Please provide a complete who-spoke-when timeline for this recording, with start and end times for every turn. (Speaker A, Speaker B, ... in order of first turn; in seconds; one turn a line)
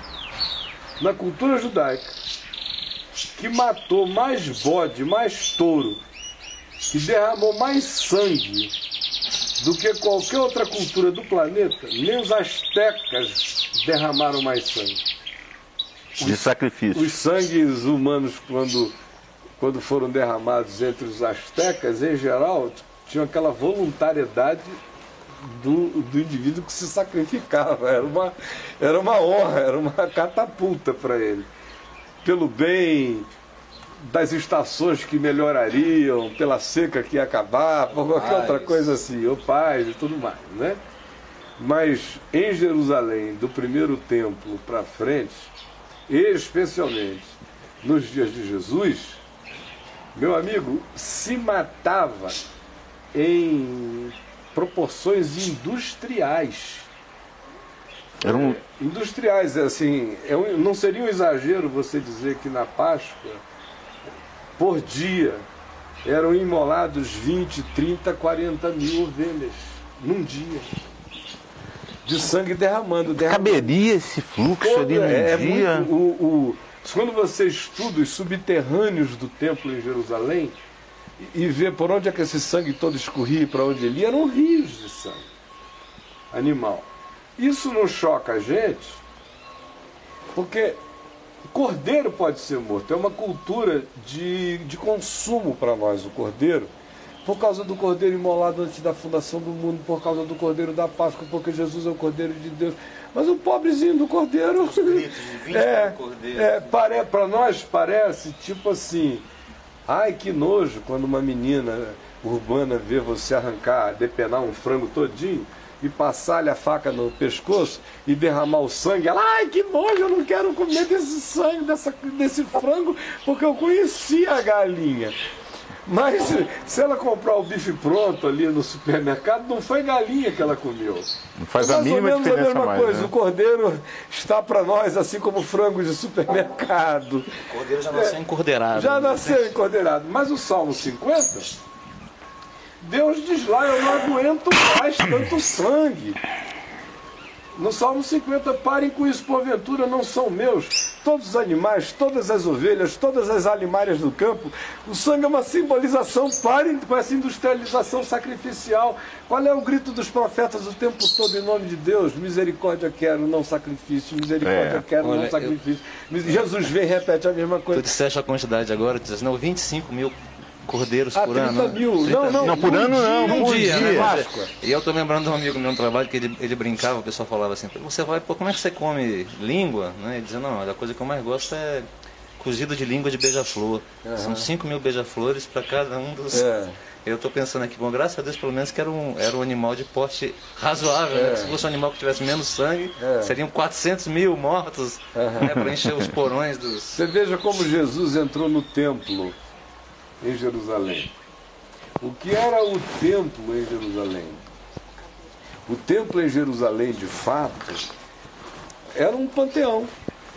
Speaker A: 1.0-2.1
Speaker A: 3.3-6.0
Speaker A: 6.9-8.7
Speaker A: 9.6-15.0
Speaker A: 16.2-18.9
Speaker B: 16.2-17.1
Speaker A: 19.6-24.8
Speaker A: 25.4-31.5
Speaker A: 32.2-33.3
Speaker A: 34.0-40.8
Speaker C: 37.9-38.9
Speaker A: 41.6-45.5
Speaker A: 46.1-49.2
Speaker A: 50.1-52.4
Speaker A: 53.1-56.9
Speaker A: 58.2-63.4
Speaker B: 58.2-58.6
Speaker A: 64.6-65.4
Speaker A: 66.0-70.7
Speaker A: 72.0-73.7
Speaker B: 73.2-75.9
Speaker A: 74.6-80.5
Speaker A: 81.2-85.2
Speaker A: 86.3-89.0
Speaker A: 90.3-90.8
Speaker A: 91.5-96.7
Speaker A: 97.2-109.2
Speaker C: 104.6-106.7
Speaker A: 109.9-125.2
Speaker A: 125.8-137.4
Speaker B: 131.4-133.1
Speaker C: 137.5-139.4
Speaker A: 137.9-138.2
Speaker A: 138.7-141.5
Speaker A: 142.8-146.2
Speaker A: 147.5-167.9
Speaker B: 164.4-164.8
Speaker C: 165.0-165.6
Speaker C: 167.7-186.5
Speaker A: 171.1-174.5
Speaker B: 172.4-174.2
Speaker A: 184.0-184.5
Speaker A: 186.3-186.8
Speaker C: 187.0-197.0
Speaker A: 191.1-191.5
Speaker A: 193.0-193.3
Speaker A: 195.1-195.6
Speaker B: 195.4-195.8
Speaker A: 196.9-199.4
Speaker A: 200.2-201.1
Speaker A: 202.0-204.4
Speaker A: 205.7-207.8
Speaker A: 208.9-209.9